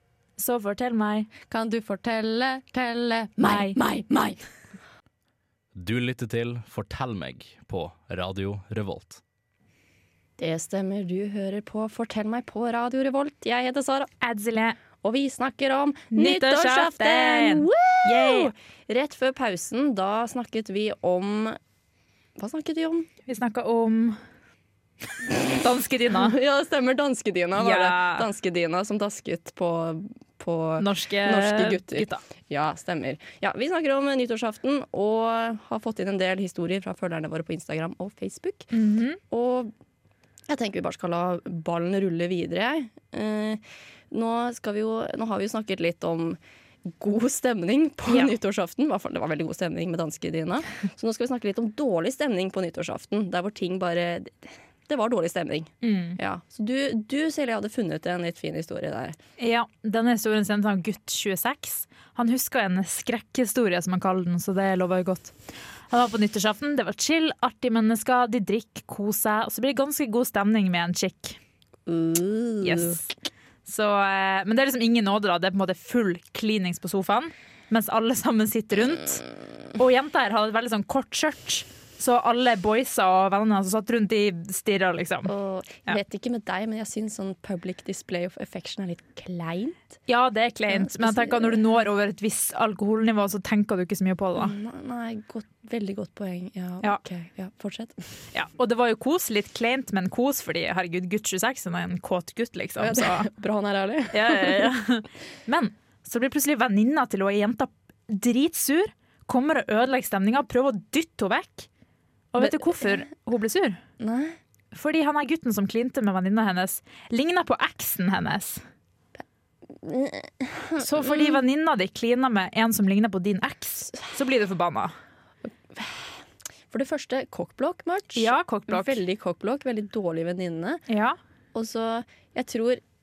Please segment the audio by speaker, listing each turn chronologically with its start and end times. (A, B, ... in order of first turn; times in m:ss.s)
0:00.4-0:01.3 A
0:01.5-0:04.4 B
0:03.4-0:03.8 A
0:05.8-0:09.2 C
0:10.4-0:14.1 B
0:14.2-0:14.8 A
0:15.0-0:21.6 B
0:16.1-0:18.5 A
0:22.4-0:23.1 B
0:23.3-0:24.2 A
0:25.3-0:26.4 A
0:26.2-0:38.7 B
0:27.6-0:28.3 A
0:30.8-0:32.2 A
0:38.7-0:39.2 A
0:39.3-0:39.7 B
0:40.5-0:59.2 B
0:55.8-0:56.2 A
0:59.4-1:05.3 A
1:05.9-1:11.4 A
1:11.9-1:13.0 B
1:12.6-1:13.1 A
1:13.7-1:19.2 A
1:19.8-1:25.3 A
1:25.3-1:29.9 B
1:30.1-1:34.6 A
1:30.7-1:31.6 B
1:34.4-1:38.1 B
1:38.3-1:43.3 A
1:42.8-1:44.7 B
1:44.1-1:51.7 A
1:52.3-1:53.8 A
1:52.4-1:53.0 B
1:54.0-1:54.4 B
1:54.7-1:58.6 A
1:59.7-2:01.4 B
2:00.8-2:04.9 A
2:05.7-2:10.8 B
2:08.2-2:09.0 A
2:10.9-2:11.2 A
2:11.5-2:12.8 B